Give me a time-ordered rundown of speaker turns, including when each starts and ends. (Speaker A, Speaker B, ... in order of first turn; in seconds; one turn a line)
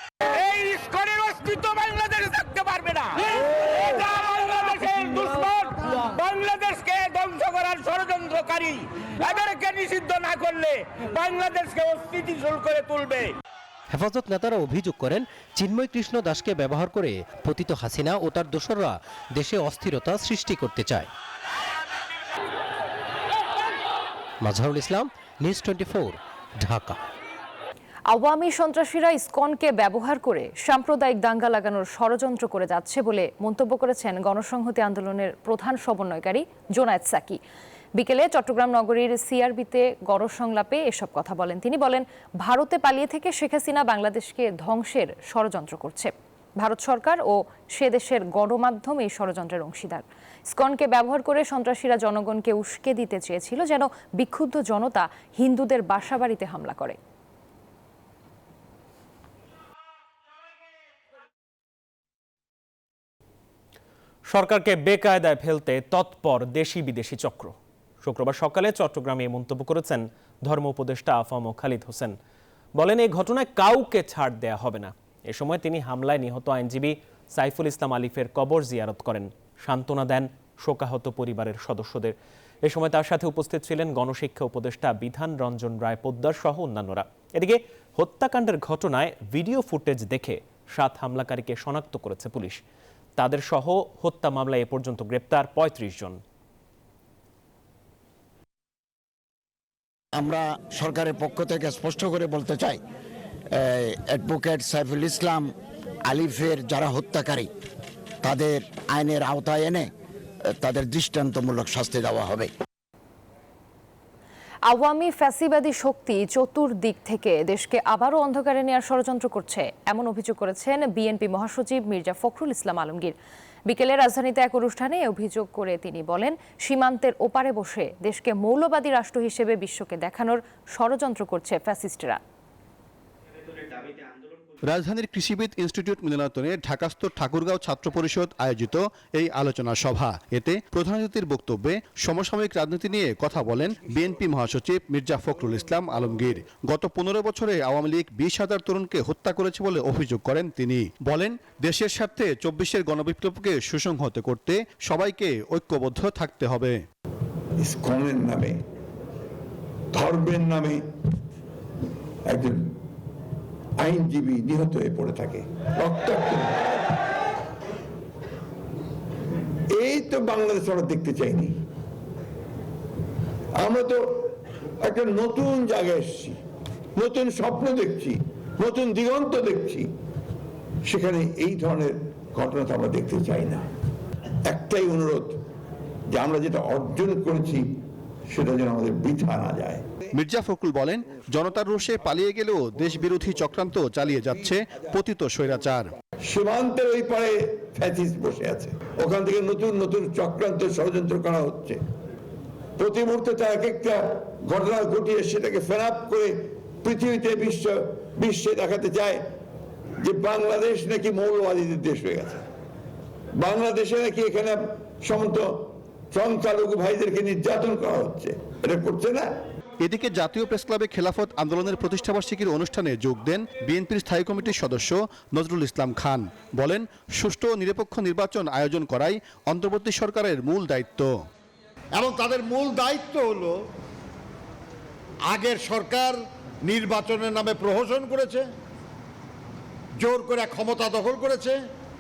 Speaker A: 0.4-13.3
Speaker B: 13.9-21.1
Speaker B: 24.4-27.0
Speaker C: 28.1-37.4
Speaker C: 38.0-57.0
Speaker D: 64.3-72.2
Speaker D: 72.8-92.6
Speaker D: 93.2-96.2
Speaker E: 100.2-102.8
Speaker E: 103.6-105.5
Speaker E: 106.1-107.5
Speaker E: 108.2-109.9
Speaker E: 110.5-112.5
Speaker C: 114.7-123.2
Speaker C: 123.7-132.2
Speaker F: 134.7-156.8
Speaker G: 157.6-158.6
Speaker G: 159.9-160.8
Speaker G: 162.3-162.7
Speaker G: 163.8-166.7
Speaker G: 169.7-171.6
Speaker G: 173.6-176.4
Speaker G: 177.0-179.9
Speaker G: 180.9-183.7
Speaker G: 184.5-185.4
Speaker G: 186.1-187.7
Speaker G: 188.3-189.9
Speaker F: 190.2-195.9
Speaker G: 196.3-201.8
Speaker G: 202.8-209.2
Speaker G: 210.0-212.4
Speaker G: 213.4-219.3
Speaker F: 219.8-231.2
Speaker H: 232.0-233.6
Speaker H: 235.3-238.5
Speaker H: 240.0-241.6